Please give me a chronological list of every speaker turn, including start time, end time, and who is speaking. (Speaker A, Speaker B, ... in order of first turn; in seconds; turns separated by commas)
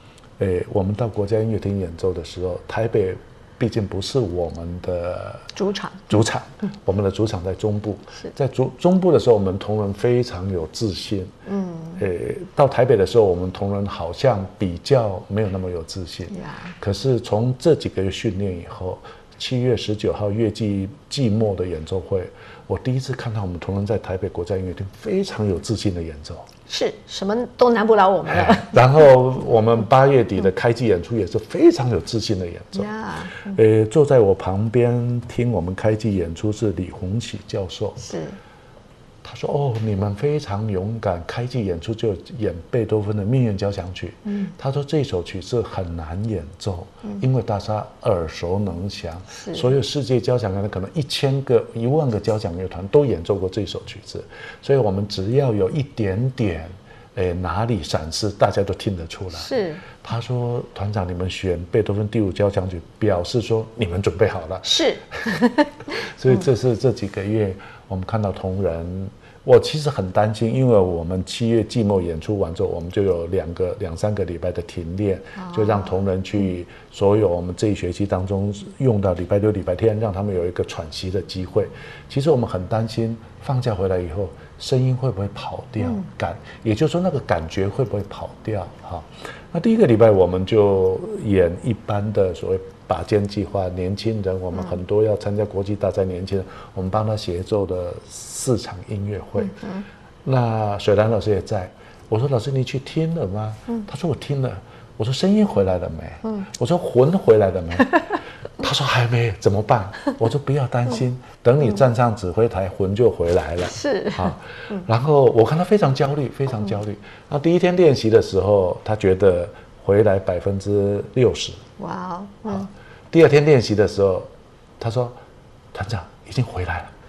Speaker A: 0.4-5.5, Speaker B: 5.5-6.2, Speaker A: 6.1-11.3, Speaker B: 11.5-12.0, Speaker A: 12.0-26.5, Speaker B: 16.3-16.7, Speaker B: 26.7-28.8, Speaker A: 28.3-38.0, Speaker B: 32.8-33.6, Speaker B: 38.0-38.4, Speaker A: 39.2-65.3, Speaker B: 44.2-44.5, Speaker B: 49.4-49.7, Speaker B: 59.3-59.8, Speaker B: 64.6-65.7, Speaker A: 66.0-99.6, Speaker B: 75.4-75.9, Speaker B: 99.4-99.8, Speaker A: 100.2-108.0, Speaker A: 108.6-121.6, Speaker B: 113.7-114.9, Speaker B: 121.8-122.7, Speaker A: 122.5-125.2, Speaker A: 125.7-126.9